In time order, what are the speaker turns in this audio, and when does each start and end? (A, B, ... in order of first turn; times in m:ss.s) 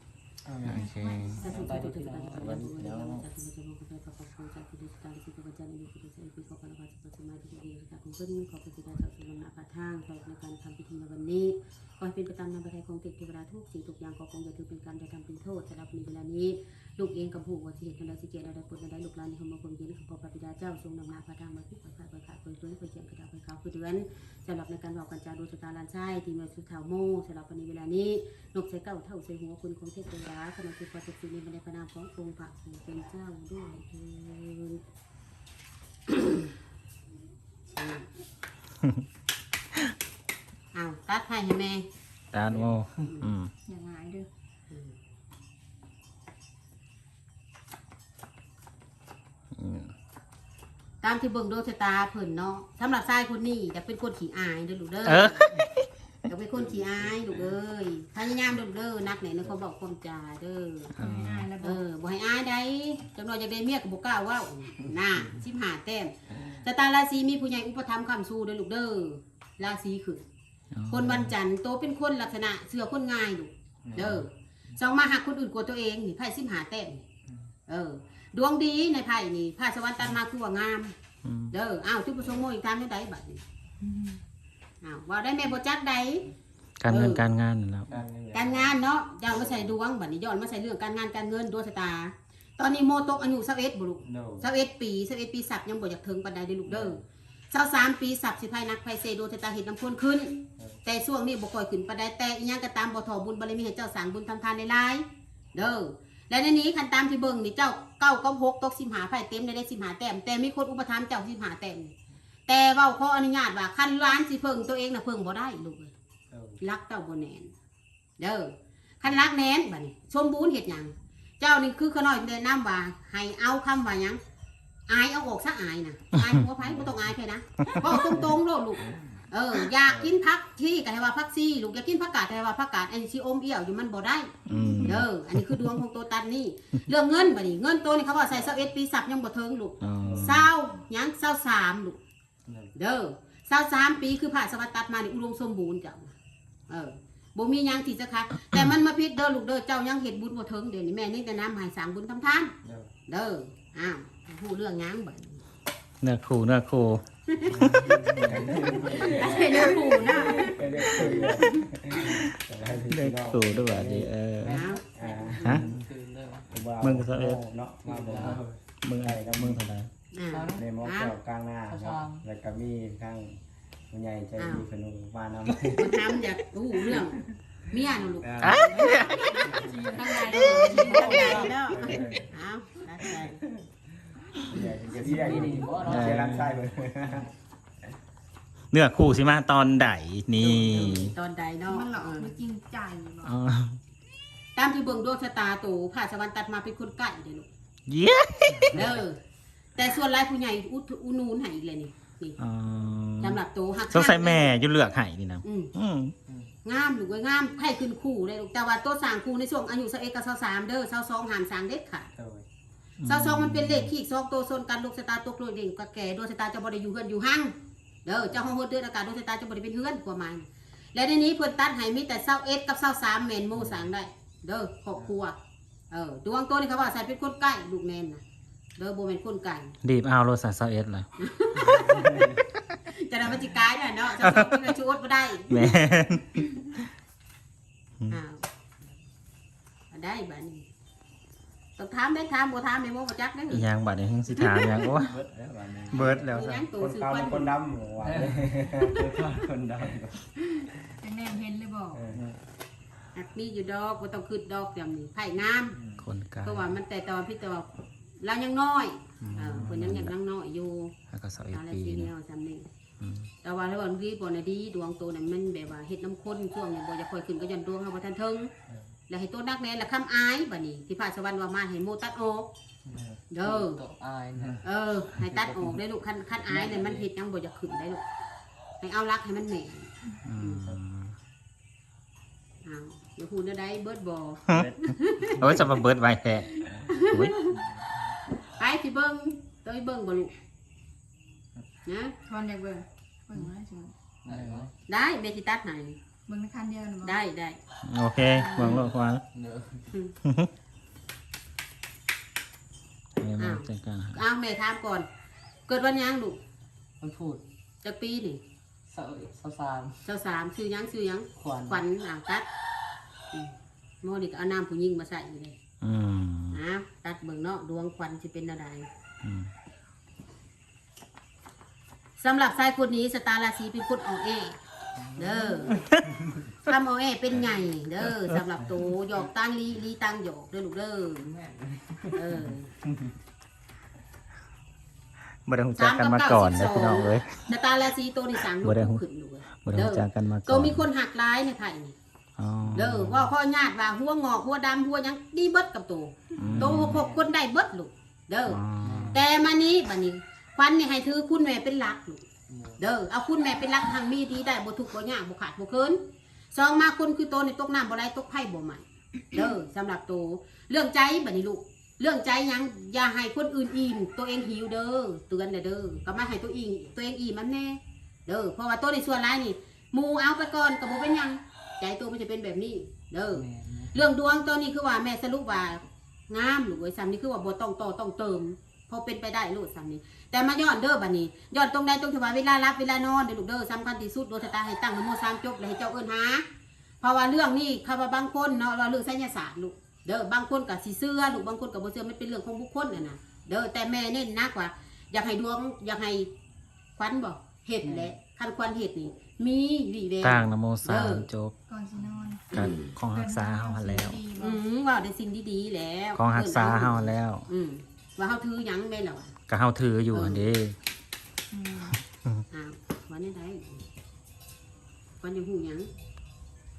0:00.4-0:03.2 A
0:00.7-0:01.2 B
0:00.7-0:01.7 C
0:01.4-0:34.8 D
0:01.5-0:02.6 E
0:36.1-0:36.5 D
0:37.8-0:38.1 D
0:40.7-0:41.8 D
0:42.3-0:43.5 B
0:43.0-0:43.3 D
0:43.7-0:44.3 C
0:44.7-0:45.0 D
0:49.5-0:49.9 B
0:51.0-0:55.5 D
0:55.0-0:55.8 B
0:56.3-1:00.9 D
0:56.6-0:57.4 A
1:01.0-1:01.5 B
1:01.0-1:01.8 C
1:01.6-1:10.2 D
1:10.7-1:11.4 B
1:10.9-1:17.0 D
1:13.9-1:14.2 A
1:17.7-1:20.9 D
1:21.2-1:21.6 B
1:21.5-1:23.4 D
1:24.8-1:26.3 D
1:26.8-1:27.9 B
1:26.9-1:27.2 D
1:27.9-1:29.7 A
1:28.3-1:51.9 D
1:34.0-1:34.5 A
1:36.7-1:37.0 A
1:52.5-1:55.9 D
1:56.3-1:56.6 A
1:56.6-1:57.5 D
1:58.2-2:04.2 D
2:04.9-2:14.3 D
2:06.6-2:07.1 A
2:09.9-2:10.1 A
2:14.5-2:15.8 B
2:14.8-2:22.0 D
2:19.8-2:20.5 B
2:20.0-2:20.5 A
2:22.5-2:22.7 A
2:22.8-2:26.1 D
2:26.7-2:32.5 D
2:32.6-2:32.9 A
2:33.1-2:35.4 D
2:36.0-2:37.0 B
2:37.3-2:37.6 D
2:37.4-2:44.1 A
2:37.6-2:38.0 B
2:37.9-2:39.9 E
2:38.8-2:41.6 D
2:40.3-2:40.6 C
2:42.0-2:42.3 B
2:42.9-2:44.6 B
2:44.4-2:46.5 E
2:44.5-2:45.4 D
2:44.9-2:45.8 A
2:46.5-2:49.6 A
2:46.8-2:47.4 B
2:47.8-2:48.4 E
2:48.2-2:49.9 B
2:50.1-2:51.2 D
2:50.3-2:50.7 E
2:50.5-2:53.4 A
2:51.7-2:52.3 E
2:53.9-2:56.0 A
2:54.4-2:54.7 D
2:55.7-3:03.4 D
2:58.2-2:58.6 A
2:58.4-2:59.5 B
2:58.8-3:01.2 E
2:59.4-2:59.9 A
3:00.2-3:01.5 C
3:00.3-3:01.2 B
3:00.7-3:02.3 A
3:03.3-3:03.6 A
3:04.4-3:07.3 A
3:04.9-3:06.4 E
3:05.8-3:06.5 B
3:08.7-3:11.1 B
3:10.4-3:12.4 D
3:11.7-3:13.3 C
3:13.2-3:13.8 B
3:14.6-3:17.5 D
3:17.9-3:19.0 B
3:18.7-3:19.2 D
3:19.8-3:22.4 D
3:22.4-3:26.2 B
3:23.2-3:24.5 D
3:25.4-3:25.7 D
3:26.6-3:32.1 D
3:32.2-3:32.5 A
3:33.0-3:33.9 B
3:33.0-3:37.5 D
3:38.0-3:45.4 D
3:43.6-3:43.9 A
3:45.9-3:48.2 D
3:48.8-3:49.8 D
3:49.8-3:51.1 B
3:51.2-3:52.3 D
3:51.8-3:52.4 A
3:52.9-3:55.7 D
3:54.2-3:54.7 B
3:55.5-3:56.6 B
3:58.1-3:58.4 D
3:59.9-4:00.7 D
4:01.8-4:03.7 D
4:03.5-4:05.2 B
4:04.3-4:04.9 D
4:05.0-4:10.3 A
4:05.9-4:06.7 B
4:05.9-4:07.5 D
4:08.0-4:08.5 E
4:08.8-4:09.1 D
4:11.0-4:12.1 C
4:11.9-4:12.4 A
4:13.2-4:15.8 D
4:16.0-4:16.8 B
4:16.4-4:17.7 D
4:18.2-4:20.9 D
4:19.2-4:20.1 B
4:21.1-4:22.1 B
4:21.5-4:22.7 D
4:23.0-4:23.3 B
4:23.4-4:28.5 D
4:29.1-4:32.5 D
4:32.9-4:33.2 A
4:33.3-4:33.8 D
4:33.4-4:34.6 E
4:34.6-4:38.0 D
4:35.4-4:35.7 E
4:36.4-4:37.1 E
4:38.8-4:40.8 D
4:40.3-4:41.2 B
4:42.6-4:45.6 D
4:45.4-4:47.4 B
4:46.7-4:47.6 D
4:48.4-4:50.3 D
4:51.9-4:52.2 D
4:52.3-4:53.9 C
4:54.2-4:54.7 E
4:54.3-4:54.7 A
4:54.9-4:56.0 D
4:56.3-4:57.2 C
4:57.0-4:57.6 D
4:57.8-4:59.2 B
4:58.3-4:58.8 C
4:59.3-4:59.8 E
5:00.2-5:00.5 B
5:03.2-5:04.2 B
5:03.4-5:05.1 D
5:05.7-5:06.4 D
5:07.0-5:07.4 E
5:07.8-5:08.4 D
5:08.9-5:10.0 E
5:10.0-5:12.5 D
5:11.4-5:11.8 E
5:13.3-5:15.6 D
5:15.8-5:16.6 B
5:16.5-5:18.9 D
5:19.2-5:19.5 B
5:22.2-5:24.6 D
5:25.0-5:25.9 E
5:25.2-5:25.8 D
5:26.7-5:31.3 D
5:31.2-5:32.2 E
5:32.1-5:32.7 D
5:35.5-5:37.5 B
5:35.8-5:42.0 D
5:38.6-5:39.0 B
5:39.6-5:40.8 B
5:42.4-5:43.3 B
5:42.7-5:52.2 D
5:46.4-5:47.0 B
5:46.4-5:47.3 E
5:48.5-5:49.2 B
5:48.8-5:49.2 E
5:52.5-5:52.9 E
5:52.8-5:56.0 D
5:56.5-6:26.4 D
6:13.3-6:14.1 E
6:27.0-6:36.3 D
6:37.0-6:41.3 D
6:37.8-6:38.1 E
6:40.2-6:41.5 B
6:41.7-6:42.5 C
6:42.5-6:43.0 D
6:42.5-6:44.2 B
6:43.1-6:44.6 C
6:44.4-6:49.3 D
6:46.2-6:47.5 B
6:49.5-6:50.8 B
6:50.1-6:50.5 D
6:51.5-6:52.0 C
6:52.5-6:53.8 D
6:55.2-6:55.9 D